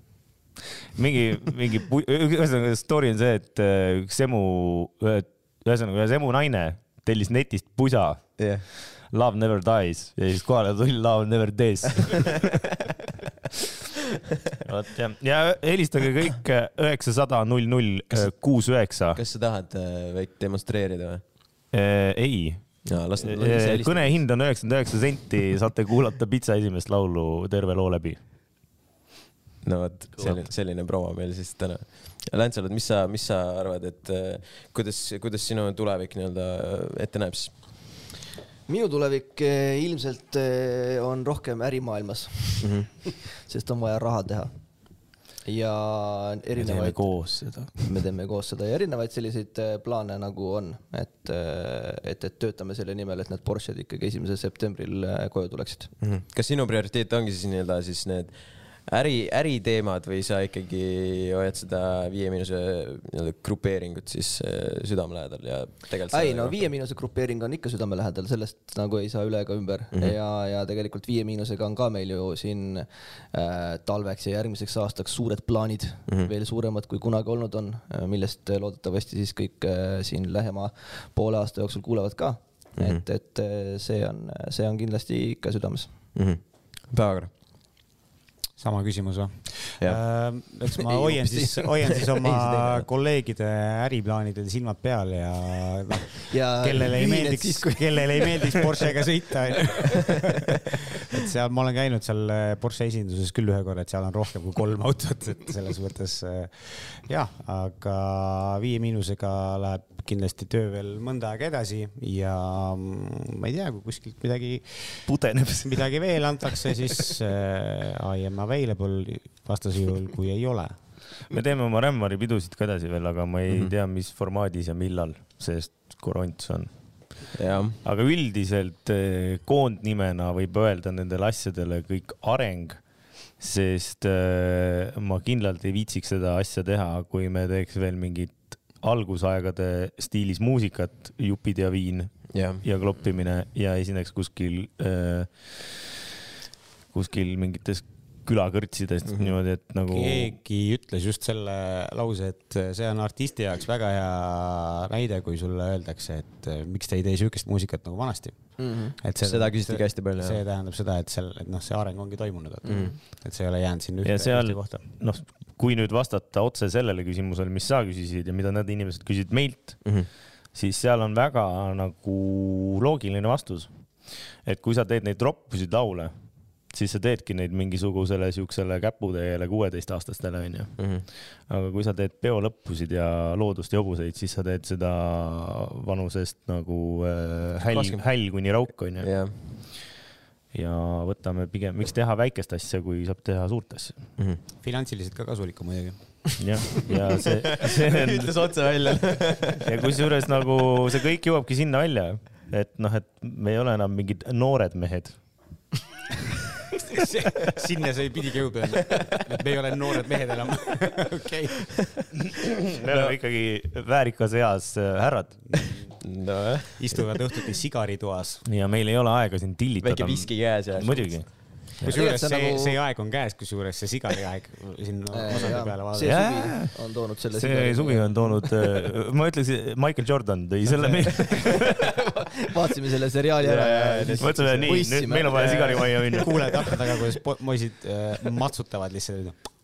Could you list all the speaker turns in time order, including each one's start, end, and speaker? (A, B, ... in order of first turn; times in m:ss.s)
0:01.0-0:12.5 A
0:08.4-0:08.6 B
0:14.6-0:19.2 A
0:19.1-0:21.2 B
0:21.7-0:28.2 A
0:22.8-0:24.2 B
0:29.6-0:37.5 B
0:38.7-0:44.5 C
0:42.6-0:42.9 B
0:45.4-0:55.9 C
0:46.6-0:47.8 A
0:56.0-0:58.3 B
0:58.9-1:06.6 B
1:06.1-1:25.9 C
1:22.8-1:23.0 B
1:26.1-1:27.3 B
1:28.6-1:40.4 D
1:30.8-1:32.7 C
1:32.3-1:32.8 B
1:36.3-1:38.6 C
1:39.7-1:40.2 C
1:41.0-1:55.1 D
1:55.1-1:55.9 A
1:55.6-2:00.8 D
1:56.5-1:56.9 A
2:01.3-2:07.3 A
2:07.3-2:07.8 B
2:07.8-2:12.8 A
2:13.4-2:25.9 A
2:22.3-2:22.6 B
2:26.9-2:30.4 A
2:29.1-2:29.3 B
2:29.9-2:44.8 D
2:38.6-2:39.0 C
2:39.2-2:40.4 B
2:42.6-2:43.0 C
2:42.7-2:42.9 B
2:44.0-2:53.7 A
2:54.4-2:56.1 A
2:56.7-3:09.5 A
3:00.8-3:01.0 B
3:07.6-3:08.0 B
3:09.0-3:09.3 B
3:10.5-3:14.0 A
3:14.6-3:16.4 D
3:16.4-3:18.3 A
3:17.5-3:20.0 B
3:19.6-3:25.2 A
3:26.9-3:31.7 D
3:32.6-3:35.6 A
3:32.8-3:33.2 B
3:36.0-3:37.1 B
3:36.8-3:38.4 D
3:38.4-3:42.0 A
3:39.8-3:41.2 B
3:41.8-3:46.3 D
3:41.8-3:42.8 C
3:45.1-3:48.7 C
3:46.0-3:51.9 A
3:51.1-3:56.7 C
3:53.4-3:54.7 B
3:54.2-3:56.7 A
3:55.3-3:55.9 B
3:56.2-3:59.4 D